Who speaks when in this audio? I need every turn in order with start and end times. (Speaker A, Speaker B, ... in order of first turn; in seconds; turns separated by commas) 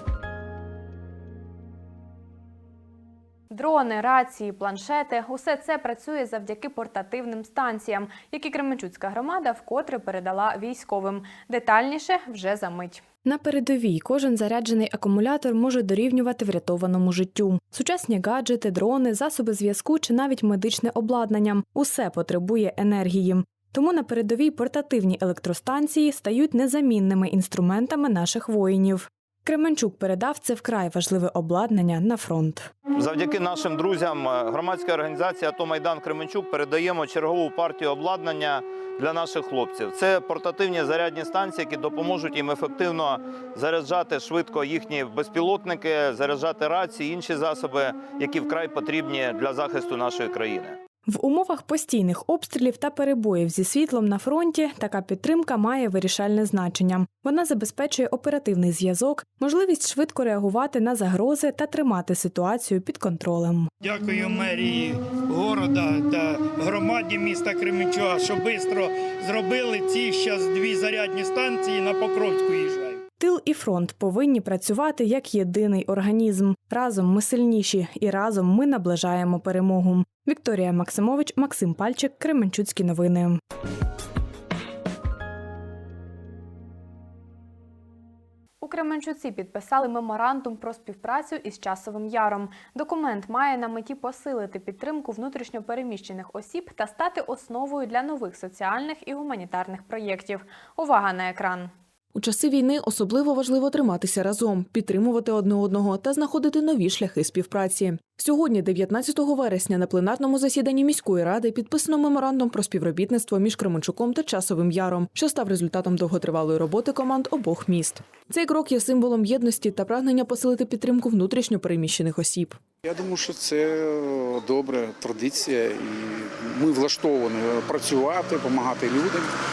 Speaker A: 3.5-32.7, Speaker B: 33.0-50.8, Speaker A: 51.1-63.7, Speaker C: 63.8-73.0, Speaker A: 73.2-83.4, Speaker A: 88.6-101.7, Speaker D: 102.2-122.6, Speaker E: 122.8-129.3